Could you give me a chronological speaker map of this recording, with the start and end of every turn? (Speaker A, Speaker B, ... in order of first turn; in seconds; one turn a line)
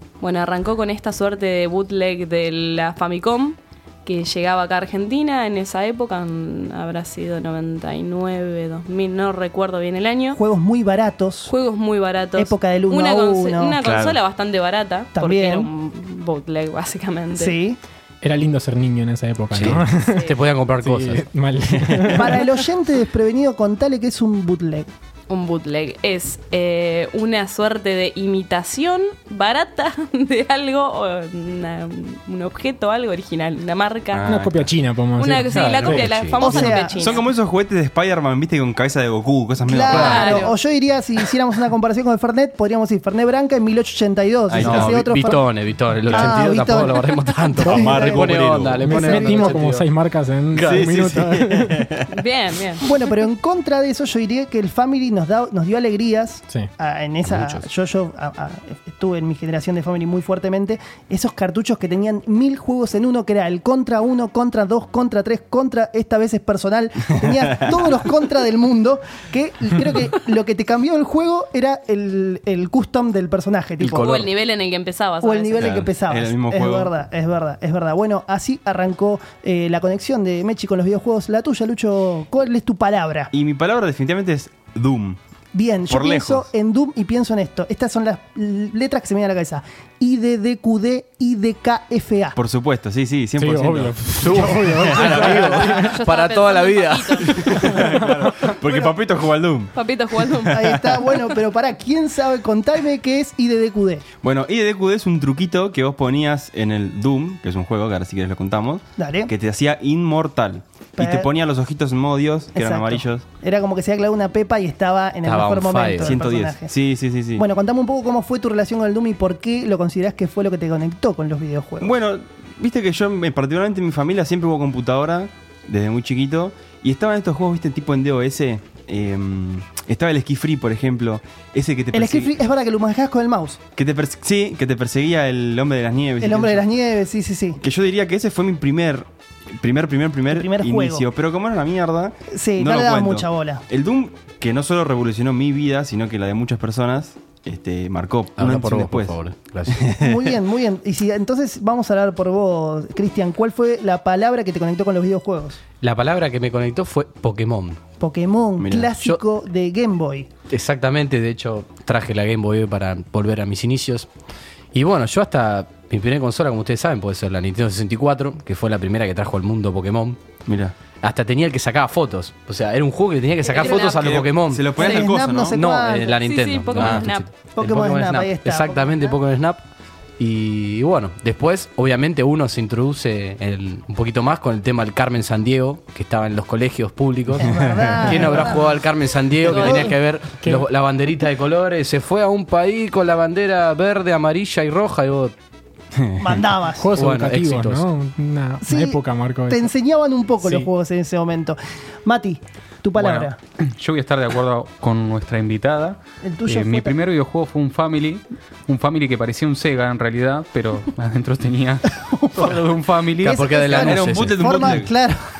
Speaker A: 0.2-10.4
Speaker B: 10.3-11.5
Speaker A: 11.5-17.6
Speaker B: 12.4-13.8
Speaker C: 13.8-14.2
Speaker B: 15.2-15.7
Speaker B: 17.4-17.8
Speaker D: 18.2-22.6
Speaker E: 19.5-21.2
Speaker A: 20.1-20.4
Speaker B: 22.1-24.9
Speaker A: 25.3-34.3
Speaker E: 34.1-34.7
Speaker D: 34.3-36.1
Speaker A: 35.2-37.3
Speaker E: 35.4-36.8
Speaker B: 36.4-37.1
Speaker C: 37.0-40.2
Speaker B: 39.6-45.5
Speaker A: 39.9-40.6
Speaker E: 39.9-40.4
Speaker C: 44.5-45.0
Speaker E: 44.6-49.9
Speaker B: 46.1-48.4
Speaker D: 47.6-48.0
Speaker C: 47.6-49.3
Speaker D: 48.8-51.9
Speaker B: 49.0-49.3
Speaker E: 50.5-50.9
Speaker C: 50.6-52.1
Speaker A: 52.1-52.9
Speaker B: 52.8-74.2
Speaker E: 57.3-57.6
Speaker E: 73.8-74.3
Speaker A: 74.0-75.8
Speaker B: 75.2-83.3
Speaker C: 75.6-76.9
Speaker C: 83.3-85.2
Speaker B: 85.5-92.4
Speaker C: 85.9-86.5
Speaker C: 92.4-95.4
Speaker D: 93.4-96.0
Speaker E: 94.2-97.8
Speaker A: 95.5-97.7
Speaker C: 97.3-99.7
Speaker D: 97.7-98.5
Speaker A: 99.7-100.8
Speaker B: 100.5-104.0
Speaker C: 104.2-113.2
Speaker B: 109.0-109.3
Speaker B: 111.0-111.3
Speaker B: 112.5-116.7
Speaker E: 115.2-116.2
Speaker C: 116.0-117.4
Speaker B: 117.4-121.9
Speaker C: 121.8-132.3
Speaker B: 131.9-133.6
Speaker C: 133.8-136.6
Speaker B: 136.2-137.6
Speaker C: 137.6-149.2
Speaker B: 140.3-141.1
Speaker B: 142.3-143.6
Speaker E: 148.4-149.9
Speaker C: 149.7-150.3
Speaker B: 149.9-155.6
Speaker E: 155.8-157.8
Speaker B: 158.0-160.3
Speaker C: 158.6-158.9
Speaker E: 160.5-164.1
Speaker E: 164.7-170.2
Speaker C: 170.5-170.7
Speaker E: 171.0-179.6
Speaker A: 173.5-174.2
Speaker B: 173.6-173.9
Speaker C: 173.6-175.6
Speaker B: 174.8-176.2
Speaker A: 176.1-177.3
Speaker B: 177.6-179.1
Speaker E: 180.2-195.3
Speaker B: 187.4-188.7
Speaker C: 187.5-187.9
Speaker A: 189.5-189.9
Speaker B: 189.6-189.9
Speaker D: 190.4-190.7
Speaker C: 196.0-196.4
Speaker B: 196.2-196.9
Speaker D: 196.7-199.7
Speaker E: 196.9-197.9
Speaker B: 198.6-203.4
Speaker D: 200.4-200.7
Speaker F: 203.0-213.5
Speaker B: 206.2-207.0
Speaker B: 212.0-212.6
Speaker B: 213.2-215.2
Speaker E: 213.2-214.8
Speaker C: 213.7-214.9